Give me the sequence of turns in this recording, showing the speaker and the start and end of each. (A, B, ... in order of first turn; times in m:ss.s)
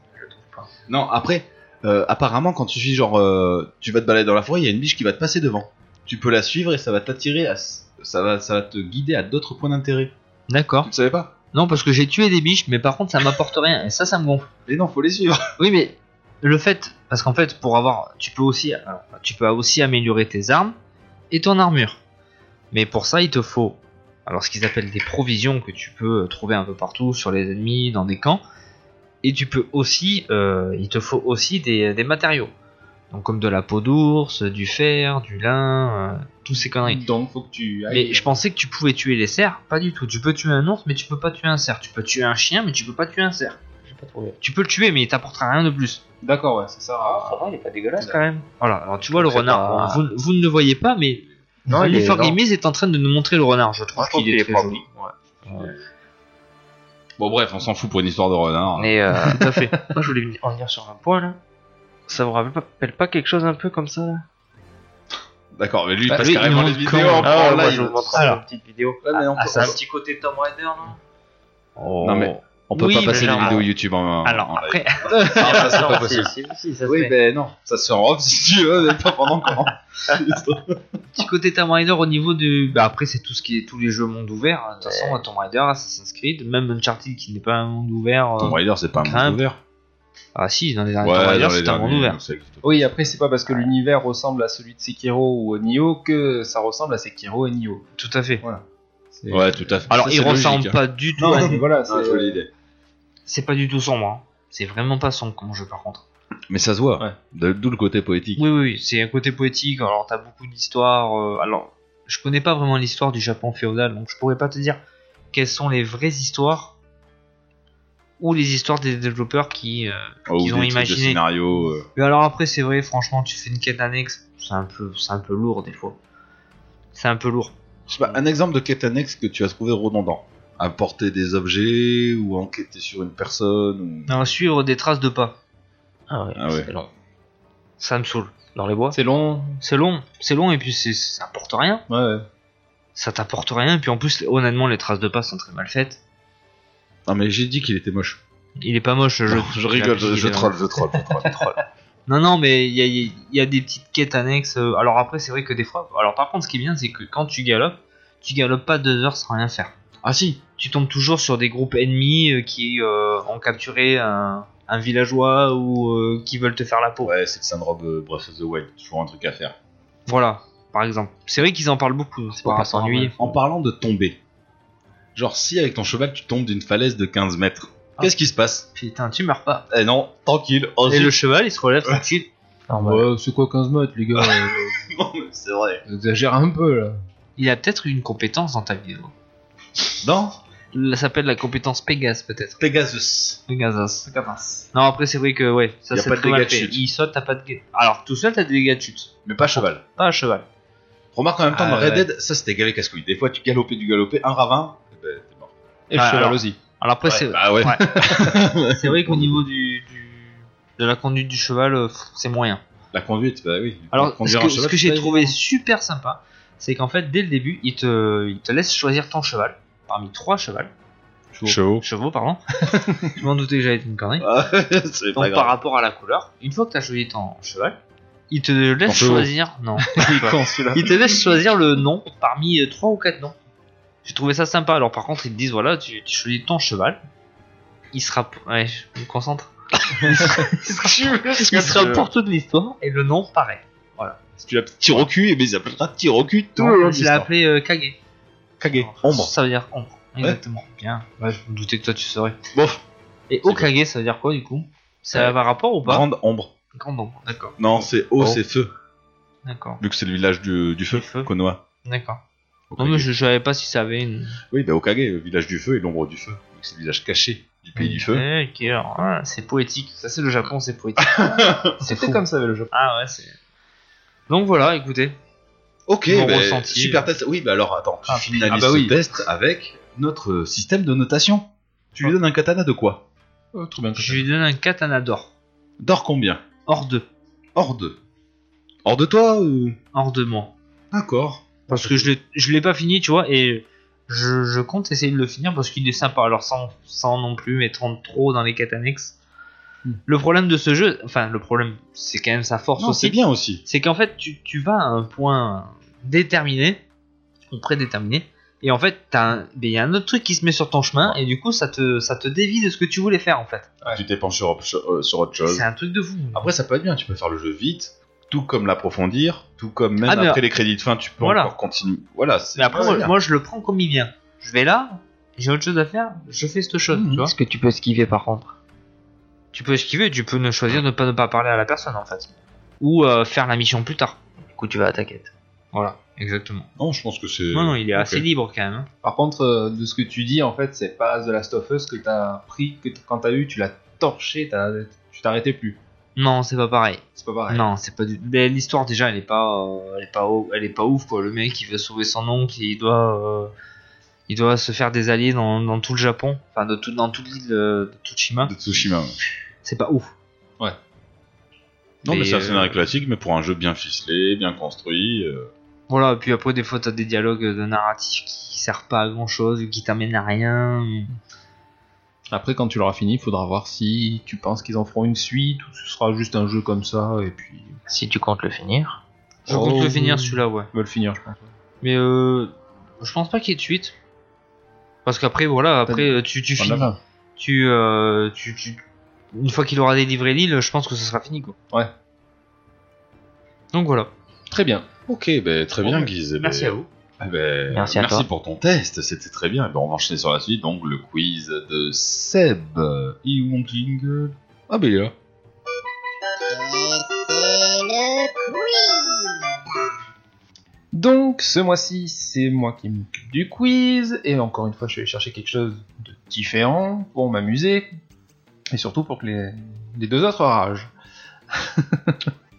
0:00.2-0:00.7 A
0:00.9-0:10.1 B
0:10.5-0:10.9 C
0:10.8-0:11.3 B
0:11.5-0:14.5 C
0:14.6-0:15.4 B
0:15.6-0:20.7 C
0:21.3-0:22.0 C
0:22.7-0:28.4 C
0:29.2-0:32.5 C
0:33.1-0:37.0 C
0:36.8-0:38.3 D
0:37.9-0:43.6 C
0:43.8-0:44.4 A
0:44.4-0:46.0 C
0:46.2-0:47.4 D
0:47.0-0:48.4 A
0:48.6-0:54.8 C
0:49.1-0:50.0 A
0:51.7-0:52.4 A
0:54.0-0:55.7 A
0:57.2-0:58.9 B
0:58.8-1:01.4 A
0:59.3-0:59.7 C
1:02.1-1:04.2 A
1:05.5-1:08.2 B
1:06.1-1:06.5 D
1:06.2-1:08.4 C
1:07.2-1:11.0 A
1:09.0-1:09.8 B
1:09.4-1:09.8 C
1:11.8-1:13.6 C
1:12.0-1:16.3 B
1:13.0-1:13.6 A
1:14.2-1:15.8 C
1:15.1-1:15.7 D
1:15.2-1:17.1 A
1:16.8-1:20.8 B
1:21.1-1:29.4 C
1:24.8-1:25.2 A
1:28.4-1:29.6 B
1:30.3-1:32.2 C
1:31.0-1:32.9 B
1:32.6-1:37.8 D
1:38.0-1:38.4 C
1:39.1-1:39.8 D
1:39.3-1:42.5 B
1:39.9-1:41.6 C
1:41.2-1:42.4 D
1:43.2-1:46.0 C
1:46.5-1:48.4 B
1:48.4-1:54.8 C
1:55.3-1:56.7 C
1:58.2-2:01.2 C
2:00.3-2:01.8 B
2:02.0-2:06.0 C
2:06.9-2:07.5 C
2:07.9-2:14.1 B
2:14.1-2:15.4 C
2:16.1-2:16.9 A
2:16.4-2:16.7 B
2:17.8-2:18.4 C
2:18.5-2:19.0 A
2:18.9-2:19.6 D
2:19.6-2:21.8 C
2:21.9-2:22.2 D
2:23.0-2:26.0 C
2:27.0-2:28.2 B
2:28.6-2:31.5 C
2:29.3-2:31.5 B
2:32.1-2:39.7 C
2:40.0-2:40.4 B
2:40.6-2:47.1 C
2:47.0-2:49.5 B
2:50.1-2:53.2 C
2:52.3-2:53.3 A
2:53.2-2:54.2 B
2:55.1-2:58.7 B
2:58.8-2:59.6 C
2:59.7-3:01.1 B
3:00.8-3:02.3 C
3:02.7-3:03.1 A
3:02.8-3:04.7 D
3:04.2-3:05.8 B
3:05.8-3:07.0 D
3:07.4-3:09.1 C
3:10.0-3:10.4 B
3:10.7-3:12.6 C
3:12.6-3:13.4 B
3:13.5-3:14.1 C
3:14.0-3:14.7 D
3:14.7-3:20.4 C
3:15.9-3:16.8 B
3:19.2-3:19.8 B
3:21.1-3:25.5 B
3:21.5-3:22.0 D
3:25.9-3:26.6 D
3:25.9-3:27.9 C
3:27.0-3:29.4 B
3:27.8-3:28.3 D
3:28.6-3:32.6 C
3:32.9-3:35.3 B
3:33.9-3:40.7 C
3:41.4-3:41.8 B
3:41.8-3:42.4 C
3:42.7-3:43.1 D
3:43.0-3:44.3 C
3:44.2-3:45.5 B
3:45.1-3:47.8 C
3:48.3-3:53.3 C
3:48.8-3:49.3 B
3:49.9-3:50.9 D
3:54.0-3:57.0 C
3:57.9-4:04.2 C
4:00.0-4:02.1 B
4:01.5-4:01.8 A
4:04.4-4:07.3 B
4:06.6-4:08.0 C
4:08.6-4:09.3 B
4:08.7-4:12.4 C
4:12.5-4:12.8 B
4:13.3-4:16.0 C
4:15.1-4:16.5 B
4:16.7-4:17.6 C
4:17.6-4:18.7 B
4:19.4-4:19.8 C
4:19.8-4:21.6 B
4:20.9-4:21.3 C
4:21.8-4:22.2 C
4:22.7-4:23.1 B
4:22.8-4:24.4 C
4:24.5-4:28.2 B
4:27.8-4:32.2 C
4:31.0-4:31.7 B
4:31.8-4:32.7 D
4:32.7-4:33.4 C
4:34.3-4:35.1 C
4:35.9-4:43.0 B
4:36.1-4:37.1 C
4:38.1-4:38.5 C
4:38.5-4:39.0 D
4:43.5-4:44.3 D
4:44.0-4:45.3 C
4:45.8-4:46.4 B
4:46.6-4:47.0 C
4:47.5-4:48.0 B
4:48.8-4:49.8 B
4:49.9-4:50.5 C
4:50.9-4:51.6 B
4:51.7-4:59.2 C
4:51.7-4:52.0 D
5:00.1-5:06.8 C
5:02.8-5:03.6 B
5:07.5-5:13.7 C
5:13.9-5:15.6 B
5:15.4-5:16.5 C
5:16.3-5:23.1 B
5:20.0-5:20.4 C
5:21.2-5:21.5 C
5:22.6-5:27.3 C
5:26.9-5:27.3 B
5:27.2-5:28.5 A
5:29.5-5:34.2 C
5:34.5-5:35.3 A
5:35.7-5:36.7 C
5:36.8-5:38.2 B
5:37.5-5:38.9 C
5:39.0-5:45.8 D
5:46.2-5:53.5 C
5:47.2-5:47.6 D
5:54.3-5:58.5 C
5:58.4-5:59.2 B
5:59.6-6:00.1 C
6:02.0-6:05.5 B
6:02.1-6:02.8 C
6:05.9-6:11.1 C
6:12.3-6:17.8 D
6:17.9-6:19.0 A
6:19.5-6:20.7 C
6:19.5-6:21.5 D
6:21.8-6:23.9 C
6:25.0-6:28.8 C
6:25.9-6:27.0 D
6:29.3-6:31.6 C
6:33.7-6:34.1 C
6:34.5-6:34.8 D
6:35.1-6:45.1 B
6:35.8-6:36.9 C
6:37.7-6:38.2 A
6:50.9-6:57.9 D
6:58.7-7:00.9 D
7:01.5-7:02.3 D